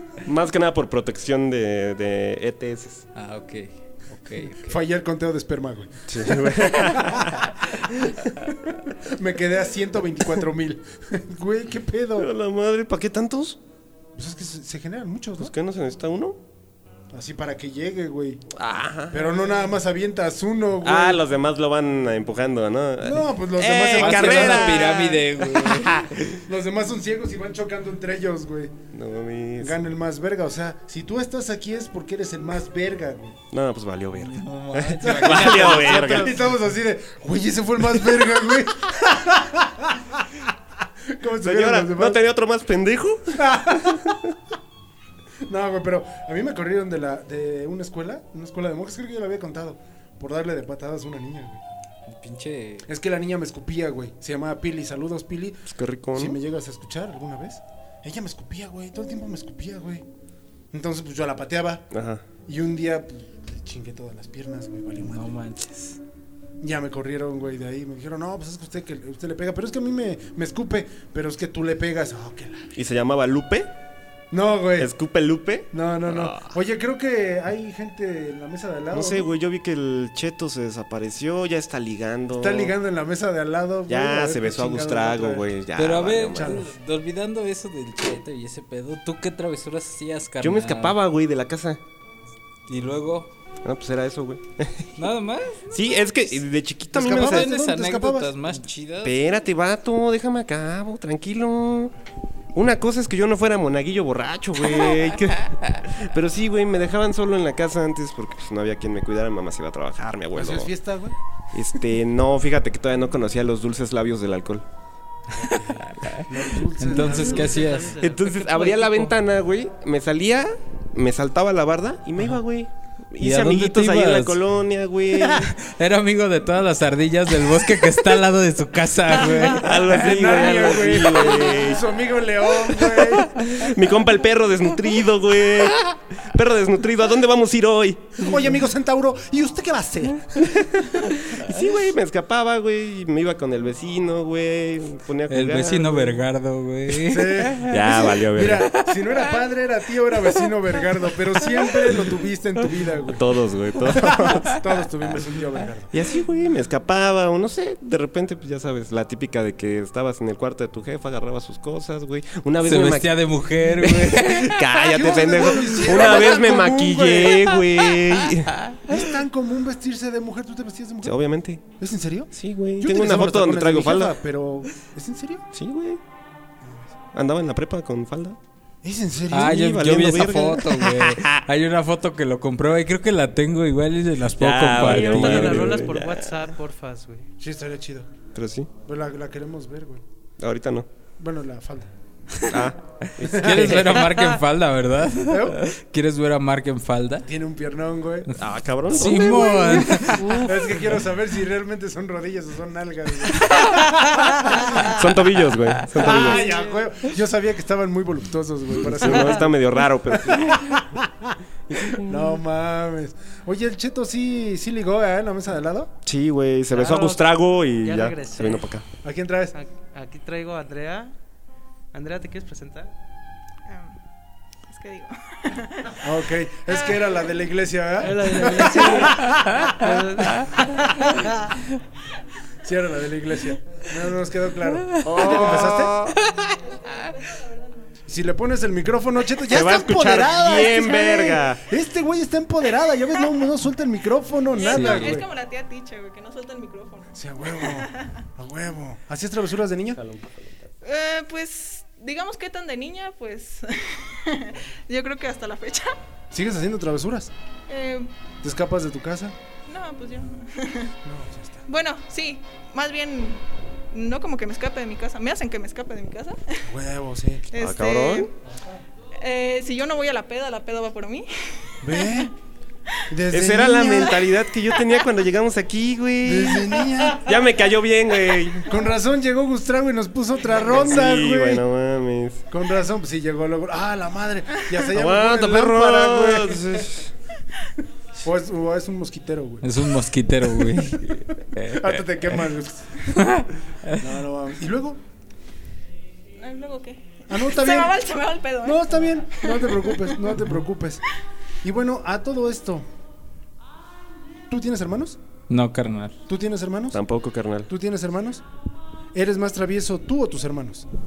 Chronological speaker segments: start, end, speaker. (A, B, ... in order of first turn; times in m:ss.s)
0:00.2-0:03.0 A
0:03.1-0:04.8 B
0:04.4-0:07.7 C
0:06.1-0:07.4 A
0:08.4-0:12.3 C
0:12.2-0:13.6 A
0:14.2-0:15.5 C
0:15.4-0:16.4 A
0:17.1-0:18.4 C
0:18.5-0:19.3 A
0:19.1-0:21.2 C
0:20.8-0:26.4 A
0:23.0-0:25.0 C
0:24.0-0:26.1 B
0:26.4-0:28.7 C
0:28.9-0:29.8 A
0:29.6-0:33.4 C
0:33.5-0:36.3 A
0:34.2-0:36.3 B
0:35.0-0:40.5 C
0:41.0-0:42.2 C
0:41.4-0:43.4 A
0:43.3-0:44.2 C
0:45.4-0:51.6 C
0:52.1-0:52.9 B
0:52.8-1:00.0 C
0:55.7-0:56.4 A
1:00.7-1:01.9 C
1:01.9-1:02.2 A
1:02.4-1:05.3 C
1:05.0-1:06.0 B
1:06.6-1:12.7 C
1:12.8-1:13.7 A
1:14.3-1:14.9 C
1:14.8-1:16.5 A
1:15.7-1:19.3 C
1:18.9-1:22.7 A
1:22.3-1:25.5 C
1:23.9-1:26.6 A
1:25.8-1:31.0 B
1:26.3-1:26.7 C
1:30.4-1:31.8 A
1:32.7-1:33.3 B
1:33.6-1:34.9 A
1:35.0-1:35.6 B
1:35.7-1:37.5 A
1:36.9-1:38.6 C
1:37.0-1:39.2 B
1:39.0-1:41.9 A
1:42.5-1:50.7 A
1:50.3-1:51.2 C
1:51.5-1:54.6 A
1:55.3-1:57.9 C
1:55.5-1:56.3 B
1:56.8-1:57.9 B
1:57.0-1:59.2 D
1:58.0-2:05.5 A
2:03.2-2:04.4 B
2:05.2-2:10.1 B
2:09.4-2:11.8 A
2:09.8-2:13.4 C
2:13.0-2:18.3 A
2:18.2-2:20.6 C
2:20.6-2:26.2 A
2:25.3-2:28.2 B
2:27.0-2:35.9 C
2:27.6-2:28.7 A
2:33.1-2:34.5 A
2:35.9-2:48.6 A
2:42.6-2:44.9 B
2:44.9-2:47.6 C
2:48.9-2:51.2 C
2:51.0-2:51.6 A
2:51.7-2:55.4 C
2:52.3-2:54.1 A
2:55.5-2:56.0 A
2:56.6-2:56.9 C
2:57.1-2:58.4 A
2:58.8-2:59.7 C
2:59.3-3:05.8 B
2:59.5-3:01.4 A
3:04.3-3:06.3 A
3:04.8-3:07.3 D
3:07.4-3:08.1 C
3:08.3-3:08.7 A
3:08.8-3:10.0 C
3:10.4-3:10.9 A
3:11.2-3:11.9 C
3:12.5-3:14.2 A
3:13.2-3:14.0 C
3:13.2-3:17.3 B
3:15.2-3:15.6 C
3:17.2-3:18.3 C
3:18.3-3:20.5 B
3:18.4-3:20.2 A
3:19.6-3:25.0 C
3:24.8-3:26.5 A
3:25.9-3:35.9 C
3:28.8-3:30.7 A
3:31.7-3:32.4 A
3:36.0-3:38.8 A
3:36.7-3:38.7 D
3:39.0-3:39.5 C
3:39.5-3:41.1 D
3:41.9-3:42.9 D
3:43.7-3:43.9 E
3:44.7-3:46.0 E
3:46.0-3:49.6 C
3:48.0-3:51.1 D
3:52.6-3:56.0 C
3:55.0-3:56.2 A
3:56.4-3:57.8 E
3:58.1-4:05.2 C
3:59.5-4:01.6 A
4:04.6-4:08.2 E
4:04.6-4:05.2 B
4:07.1-4:10.0 C
4:10.0-4:10.7 A
4:10.8-4:15.9 E
4:16.3-4:17.3 C
4:17.7-4:18.1 E
4:18.4-4:19.4 C
4:19.7-4:20.9 E
4:21.0-4:21.6 C
4:21.7-4:26.6 E
4:26.6-4:27.5 C
4:27.5-4:28.3 E
4:27.6-4:28.3 A
4:29.2-4:32.2 E
4:31.8-4:32.3 C
4:33.1-4:34.2 C
4:33.3-4:38.7 A
4:36.2-4:37.4 C
4:38.6-4:41.6 C
4:40.6-4:42.4 A
4:42.5-4:46.9 C
4:44.9-4:47.1 A
4:48.2-4:49.8 C
4:49.6-4:52.0 B
4:50.5-4:53.1 C
4:53.1-4:54.0 B
4:54.0-4:55.0 C
4:56.4-5:00.2 E
4:57.3-4:58.0 C
4:58.6-5:01.0 C
5:01.6-5:02.9 C
5:04.5-5:05.2 C
5:05.5-5:06.2 B
5:06.3-5:07.0 C
5:06.9-5:07.7 A
5:07.7-5:08.4 C
5:09.1-5:10.8 C